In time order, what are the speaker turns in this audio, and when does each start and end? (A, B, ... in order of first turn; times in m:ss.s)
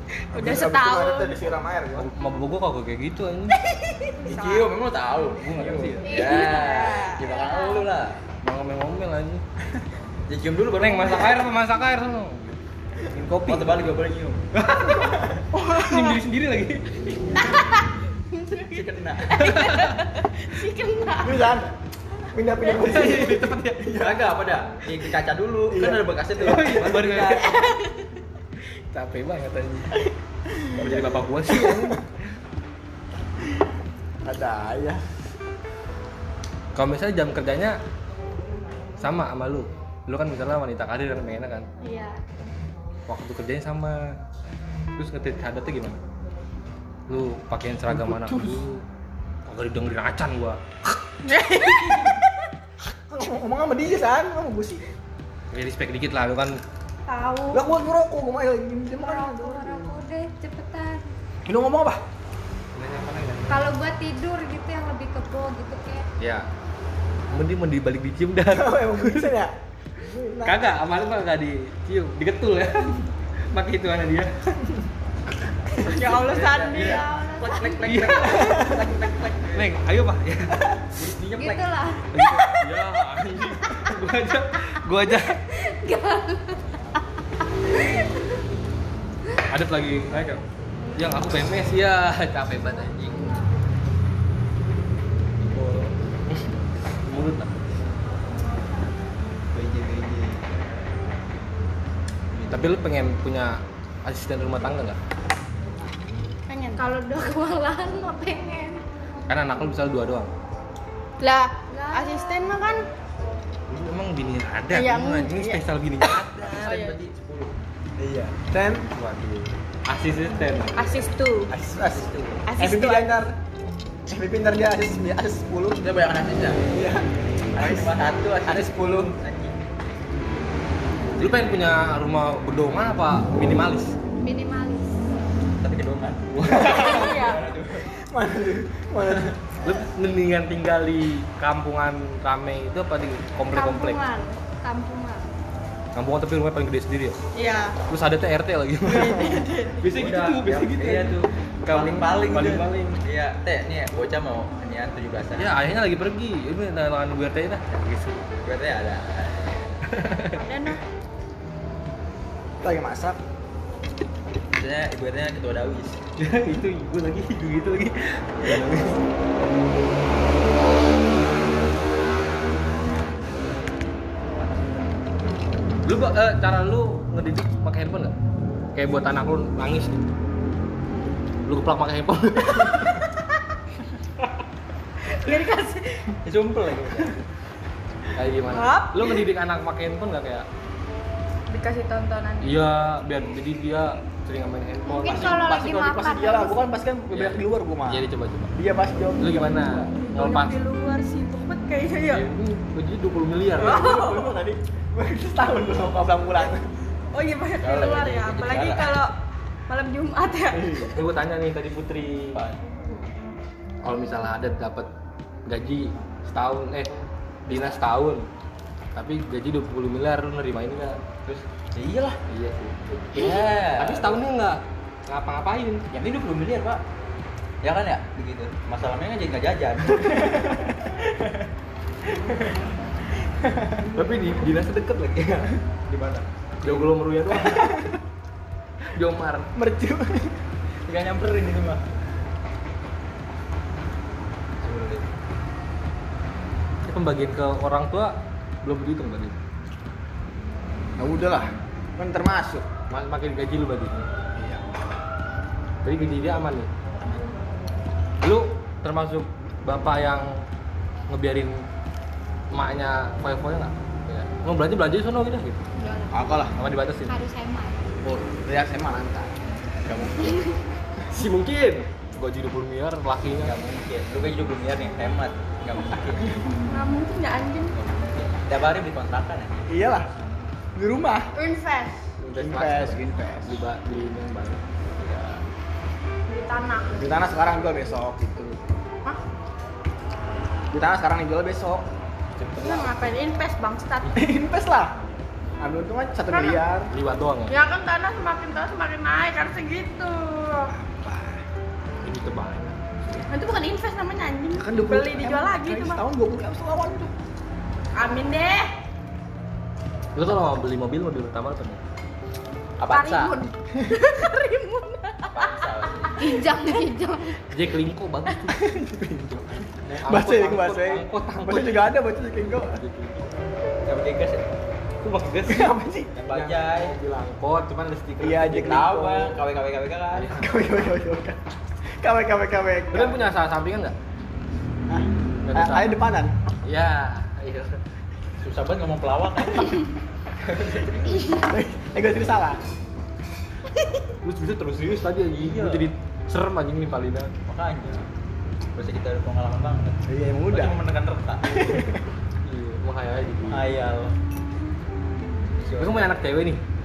0:00.3-0:01.4 A
0:00.3-0:02.1 B
0:02.0-0:03.6 C
0:03.6-0:04.8 A
0:04.3-0:08.2 D
0:05.4-0:06.2 C
0:06.0-0:07.9 E
0:06.1-0:07.5 A
0:08.4-0:09.4 C
0:10.3-0:11.5 D
0:10.8-0:13.8 C
0:13.5-0:14.4 D
0:14.5-0:17.5 C
0:15.5-0:16.2 B
0:17.4-0:21.6 A
0:18.5-0:19.4 D
0:19.3-0:20.0 C
0:21.2-0:21.8 B
0:22.3-0:24.3 B
0:22.8-0:23.9 C
0:23.9-0:27.6 D
0:25.7-0:27.0 B
0:26.4-0:27.6 C
0:27.3-0:28.1 A
0:28.9-0:30.0 C
0:30.5-0:31.0 B
0:30.7-0:32.1 C
0:31.5-0:32.0 B
0:34.2-0:35.0 B
0:36.8-0:37.8 C
0:39.0-0:41.7 C
0:41.8-0:42.2 A
0:43.1-0:44.2 C
0:45.0-0:46.0 C
0:47.1-0:48.8 C
0:47.9-0:48.6 B
0:49.5-0:51.0 C
0:51.2-0:52.3 A
0:53.1-0:54.8 B
0:55.5-0:56.6 C
0:57.1-0:57.7 A
0:57.5-1:00.0 B
0:58.9-1:01.1 E
1:01.5-1:02.0 B
1:02.8-1:03.7 C
1:03.5-1:06.0 E
1:06.2-1:06.5 C
1:07.3-1:09.3 C
1:08.5-1:10.6 B
1:10.4-1:14.6 C
1:15.8-1:19.7 D
1:15.8-1:17.1 A
1:16.8-1:18.4 E
1:17.8-1:18.5 C
1:18.3-1:18.9 B
1:19.5-1:20.6 C
1:20.9-1:21.7 D
1:21.4-1:22.7 E
1:22.1-1:25.4 C
1:25.5-1:27.0 E
1:27.6-1:28.2 E
1:29.5-1:30.4 C
1:31.0-1:33.4 C
1:37.0-1:37.6 C
1:39.5-1:40.4 D
1:42.3-1:42.7 D
1:42.5-1:45.0 C
1:46.5-1:46.8 A
1:46.8-1:48.8 E
1:49.3-1:50.3 C
1:51.2-1:52.8 A
1:51.7-1:52.5 E
1:53.7-1:56.8 C
1:54.7-1:55.6 A
1:56.4-1:57.5 D
1:56.5-1:57.0 A
1:58.0-1:58.9 B
1:59.0-2:01.0 C
2:00.8-2:01.5 A
2:01.5-2:03.3 B
2:01.8-2:02.4 D
2:02.5-2:03.1 A
2:04.1-2:05.8 B
2:05.8-2:06.6 D
2:06.7-2:09.1 B
2:07.6-2:09.6 D
2:11.2-2:14.0 C
2:14.2-2:15.0 E
2:15.6-2:17.9 D
2:16.3-2:16.9 C
2:16.6-2:17.0 B
2:16.8-2:17.5 A
2:17.9-2:19.4 B
2:19.6-2:24.0 C
2:23.5-2:25.3 E
2:26.0-2:27.2 C
2:27.3-2:27.8 A
2:27.9-2:33.0 C
2:28.9-2:29.8 A
2:29.8-2:35.5 D
2:35.4-2:38.4 C
2:38.4-2:39.8 D
2:39.9-2:40.4 C
2:40.3-2:40.8 A
2:42.6-2:43.2 B
2:44.6-2:46.0 D
2:46.2-2:49.0 C
2:55.8-2:58.2 C
2:58.8-3:00.1 C
3:01.5-3:03.1 C
3:05.0-3:06.2 A
3:06.2-3:07.2 D
3:08.2-3:10.5 C
3:08.4-3:09.3 A
3:11.5-3:12.7 A
3:12.4-3:15.4 C
3:14.8-3:16.6 E
3:15.1-3:18.0 B
3:17.1-3:18.6 C
3:18.6-3:19.9 B
3:19.2-3:20.6 C
3:20.0-3:22.3 A
3:22.1-3:23.9 C
3:23.6-3:24.4 A
3:23.6-3:26.7 B
3:27.1-3:29.1 A
3:27.6-3:29.0 D
3:29.7-3:30.9 A
3:30.5-3:31.0 B
3:30.9-3:32.4 C
3:32.3-3:32.6 D
3:33.8-3:34.9 C
3:35.5-3:38.3 C
3:39.0-3:41.0 C
3:41.2-3:42.2 D
3:42.3-3:45.8 C
3:43.1-3:44.2 D
3:45.9-3:46.8 D
3:47.6-3:51.5 D
3:50.0-3:50.7 B
3:52.2-3:52.6 D
3:53.4-3:53.8 D
3:54.0-3:55.5 C
3:55.9-3:56.9 D
3:56.6-3:57.8 C
3:57.4-3:58.0 B
3:59.0-3:59.5 C
3:59.6-4:00.4 B
4:00.9-4:01.8 D
4:04.6-4:05.1 D
4:06.8-4:09.4 C
4:11.0-4:12.7 B
4:12.9-4:14.1 C
4:14.4-4:14.6 B
4:15.8-4:16.7 C
4:18.2-4:20.4 C
4:21.1-4:21.7 C
4:22.5-4:25.6 C
4:25.8-4:26.5 E
4:26.1-4:26.5 B
4:26.6-4:27.2 C
4:27.1-4:27.9 E
4:28.0-4:30.5 B
4:31.1-4:33.6 C
4:33.4-4:36.4 D
4:36.7-4:37.8 A
4:37.8-4:39.7 D
4:39.7-4:40.1 B
4:40.8-4:41.3 B
4:41.3-4:42.0 A
4:42.2-4:44.6 C
4:42.4-4:43.6 B
4:45.0-4:45.4 D
4:46.3-4:47.1 A
4:47.0-4:48.6 B
4:50.7-4:51.8 B
4:52.4-4:53.1 D
4:52.6-4:54.2 A
4:54.2-4:54.9 B
4:55.6-4:56.9 B
4:56.3-4:56.6 A
4:56.9-4:57.6 C
4:57.5-5:00.7 A
5:00.7-5:01.4 B
5:02.0-5:02.8 C
5:03.3-5:06.0 A
5:04.6-5:07.1 B
5:08.0-5:08.7 A
5:10.2-5:11.8 C
5:12.8-5:13.4 D
5:12.9-5:16.7 A
5:13.8-5:14.0 B
5:15.3-5:16.2 D
5:16.2-5:17.6 E
5:17.5-5:18.7 C
5:18.5-5:22.8 B
5:19.9-5:22.0 C
5:22.6-5:23.3 C
5:23.8-5:24.4 D
5:25.0-5:25.7 C
5:25.5-5:26.5 B
5:26.2-5:27.0 D
5:26.3-5:28.8 C
5:28.2-5:29.4 B
5:28.6-5:30.3 D
5:30.1-5:30.5 C
5:30.4-5:31.4 B
5:32.0-5:33.2 B
5:32.9-5:34.0 C
5:34.9-5:36.4 B
5:35.4-5:36.0 C
5:36.6-5:37.8 C
5:38.4-5:39.9 D
5:40.4-5:41.2 D
5:41.3-5:42.6 B
5:44.2-5:47.3 C
5:45.4-5:45.9 D
5:47.5-5:48.1 D
5:48.8-5:51.8 D
5:50.1-5:50.8 B
5:51.5-5:52.0 B
5:52.4-5:53.7 C
5:53.5-5:54.1 D
5:55.6-5:56.1 D
5:55.7-5:56.6 C